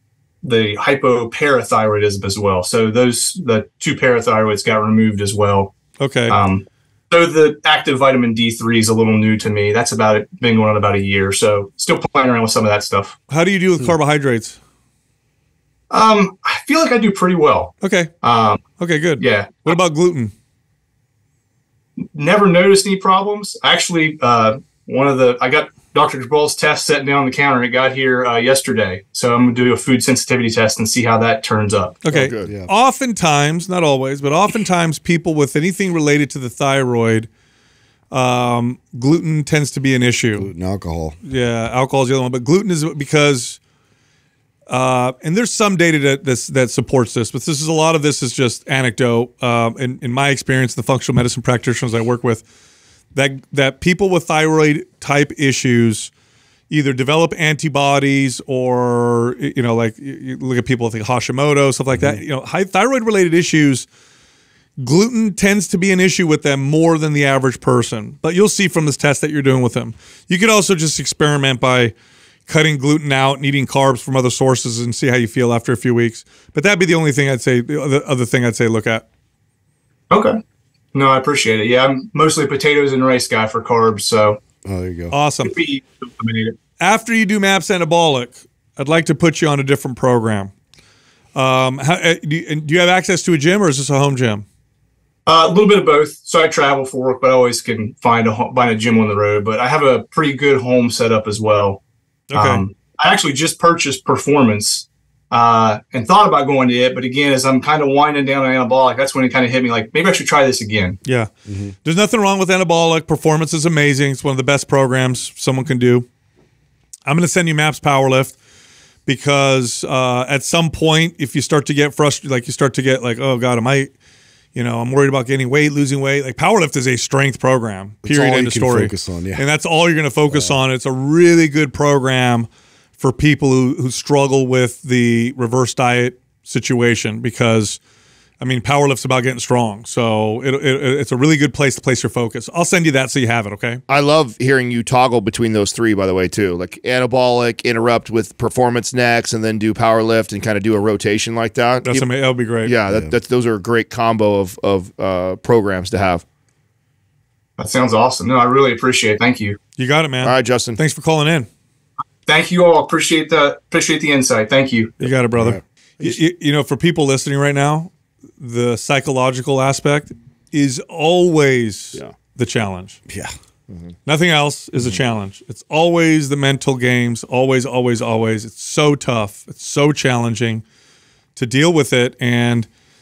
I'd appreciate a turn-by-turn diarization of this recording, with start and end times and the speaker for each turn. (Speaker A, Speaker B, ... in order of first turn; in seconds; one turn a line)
Speaker A: 0.4-5.7
Speaker B: 6.0-6.4
Speaker A: 6.3-13.2
Speaker B: 13.3-14.6
Speaker A: 15.9-18.7
Speaker B: 17.8-18.1
Speaker B: 18.8-20.3
Speaker A: 19.2-19.7
Speaker A: 22.0-32.0
Speaker B: 32.0-37.3
Speaker C: 32.1-32.5
Speaker D: 32.5-32.7
Speaker B: 38.1-40.5
Speaker D: 40.4-41.2
Speaker B: 41.2-43.6
Speaker B: 44.7-52.5
Speaker B: 53.1-56.1
Speaker B: 56.7-63.9
Speaker D: 61.9-62.2
Speaker B: 64.8-71.9
Speaker B: 72.5-79.0
Speaker A: 80.1-80.4
Speaker A: 80.9-84.4
Speaker D: 84.7-85.2
Speaker B: 85.1-85.5
Speaker A: 85.4-86.6
Speaker B: 86.8-90.5
Speaker B: 91.3-94.5
Speaker A: 95.3-101.8
Speaker B: 102.3-102.6
Speaker A: 102.3-111.0
Speaker B: 111.0-111.3
Speaker D: 111.5-111.8
Speaker B: 111.8-116.1
Speaker B: 117.1-118.4
Speaker B: 119.1-123.9
Speaker B: 124.5-137.8
Speaker D: 128.0-129.4
Speaker D: 130.3-130.6
Speaker B: 138.4-143.8
Speaker C: 143.9-152.1
Speaker B: 151.8-152.7
Speaker C: 152.6-156.2
Speaker D: 152.9-153.1
Speaker A: 157.6-159.6
Speaker B: 159.8-161.5
Speaker C: 160.2-160.8
Speaker A: 162.3-164.9
Speaker B: 165.0-173.0
Speaker D: 165.3-165.6
Speaker D: 173.1-173.3
Speaker B: 174.1-180.6
Speaker B: 181.4-182.7